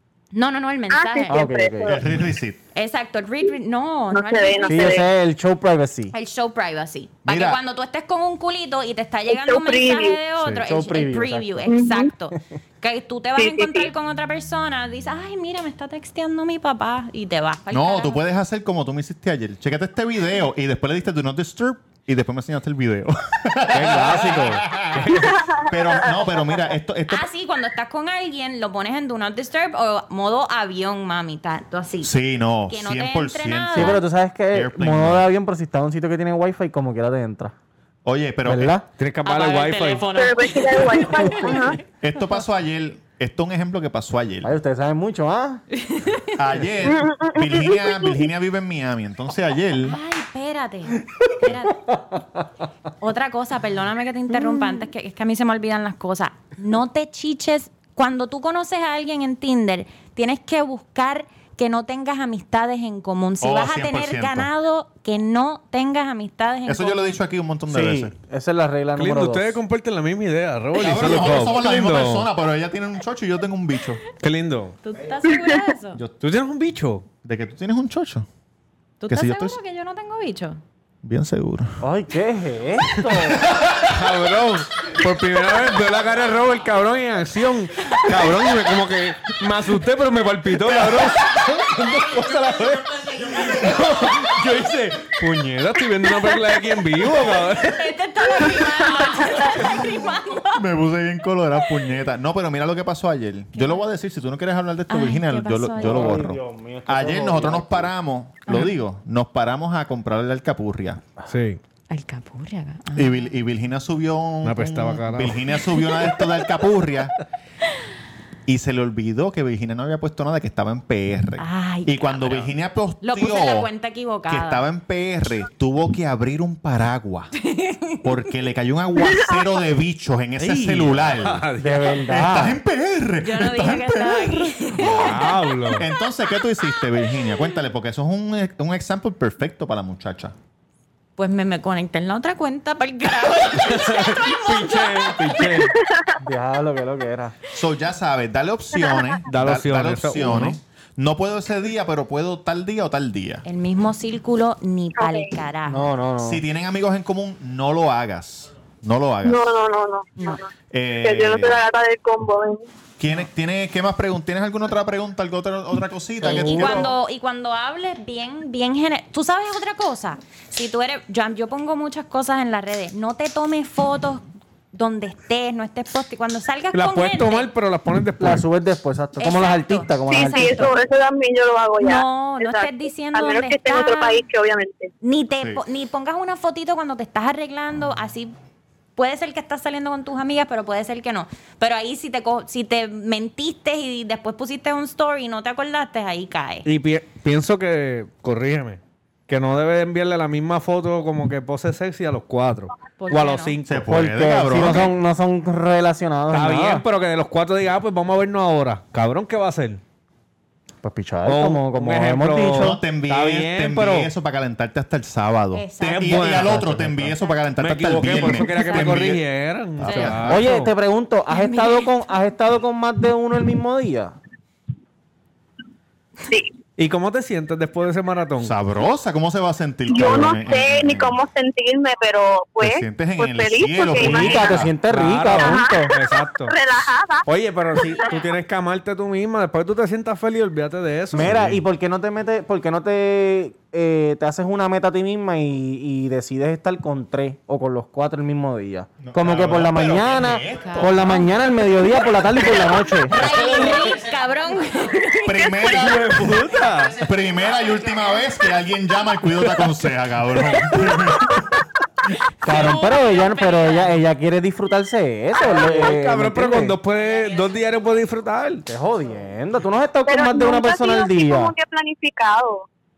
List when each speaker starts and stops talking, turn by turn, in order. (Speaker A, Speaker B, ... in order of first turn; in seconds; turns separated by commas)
Speaker A: 0.3-1.4, Speaker B: 0.9-2.0, Speaker C: 1.3-2.0, Speaker D: 1.9-2.6, Speaker A: 2.7-5.0, Speaker B: 4.1-5.0, Speaker C: 4.7-6.1, Speaker A: 6.1-18.2, Speaker D: 7.2-7.6, Speaker B: 9.3-10.2, Speaker C: 10.6-11.8, Speaker B: 11.7-12.1, Speaker B: 13.4-13.9, Speaker D: 17.7-27.3, Speaker E: 23.7-25.3, Speaker B: 25.3-26.1, Speaker A: 27.1-32.1, Speaker D: 32.0-35.2, Speaker A: 32.7-34.0, Speaker C: 33.7-37.5, Speaker D: 38.0-38.8, Speaker C: 38.5-38.8, Speaker E: 39.0-40.1, Speaker A: 39.2-42.4, Speaker B: 40.1-41.8, Speaker D: 42.0-44.5, Speaker C: 44.4-45.6, Speaker A: 45.8-46.3, Speaker D: 46.4-50.0, Speaker B: 46.8-48.2, Speaker A: 49.8-51.9, Speaker A: 53.0-67.2, Speaker D: 63.4-64.5, Speaker D: 66.7-68.1, Speaker C: 67.7-69.6, Speaker E: 69.0-72.3, Speaker D: 70.7-74.0, Speaker E: 74.2-74.8, Speaker A: 74.8-76.0, Speaker B: 75.2-75.7, Speaker E: 76.2-77.1, Speaker D: 77.2-78.3, Speaker A: 79.0-80.6, Speaker D: 79.1-79.6, Speaker D: 81.0-81.8, Speaker C: 81.8-83.4, Speaker E: 83.9-97.9, Speaker A: 97.7-100.6, Speaker D: 100.5-111.0, Speaker A: 103.5-103.8, Speaker A: 104.9-106.2, Speaker C: 105.8-107.9, Speaker E: 111.3-111.6, Speaker A: 111.9-113.3, Speaker D: 112.9-117.1, Speaker E: 114.4-115.5, Speaker D: 118.5-123.7, Speaker A: 121.4-124.7, Speaker D: 124.3-127.3, Speaker A: 127.4-128.1, Speaker D: 128.0-131.5, Speaker E: 130.4-132.1, Speaker C: 131.6-132.6, Speaker D: 132.1-135.0, Speaker A: 133.2-135.3, Speaker E: 134.8-135.9, Speaker D: 135.7-140.3, Speaker A: 141.2-145.2, Speaker E: 143.5-145.7, Speaker B: 145.4-146.1, Speaker C: 146.2-147.3, Speaker D: 147.5-153.4, Speaker B: 148.7-149.2, Speaker E: 149.3-150.6, Speaker A: 153.4-155.9, Speaker B: 154.9-155.3, Speaker C: 155.7-156.4, Speaker D: 156.2-159.5, Speaker B: 159.2-160.5, Speaker D: 160.7-161.6, Speaker B: 161.0-162.7, Speaker D: 163.0-166.9, Speaker C: 166.2-166.9, Speaker A: 166.3-177.5, Speaker E: 176.7-178.4, Speaker C: 178.2-180.7, Speaker A: 179.2-180.7, Speaker B: 180.1-184.9, Speaker A: 181.8-184.2, Speaker A: 185.0-188.3, Speaker A: 188.9-196.7, Speaker E: 196.6-204.8, Speaker A: 203.0-203.6, Speaker D: 203.6-204.9, Speaker C: 203.9-206.8, Speaker E: 206.3-209.8, Speaker C: 210.8-212.8, Speaker E: 211.2-214.1, Speaker D: 212.5-219.2, Speaker A: 215.5-216.2, Speaker E: 215.8-217.1, Speaker C: 216.5-217.1, Speaker E: 217.6-220.7, Speaker A: 218.2-219.0, Speaker D: 219.8-220.4, Speaker A: 219.9-220.1, Speaker C: 220.2-224.2, Speaker A: 221.3-221.9, Speaker E: 226.8-228.6, Speaker D: 228.4-231.2, Speaker B: 229.9-234.6, Speaker D: 232.6-234.7, Speaker C: 233.9-235.9, Speaker E: 234.9-236.6, Speaker B: 235.3-238.2, Speaker E: 237.3-241.5, Speaker C: 241.1-253.2, Speaker D: 241.2-241.6, Speaker D: 249.0-251.1, Speaker A: 250.6-251.3, Speaker A: 252.5-255.6, Speaker D: 253.1-253.7, Speaker D: 255.2-261.5, Speaker E: 255.6-257.0, Speaker A: 262.4-264.0, Speaker C: 262.4-266.8, Speaker E: 265.4-268.6, Speaker C: 268.6-271.5, Speaker B: 270.1-272.7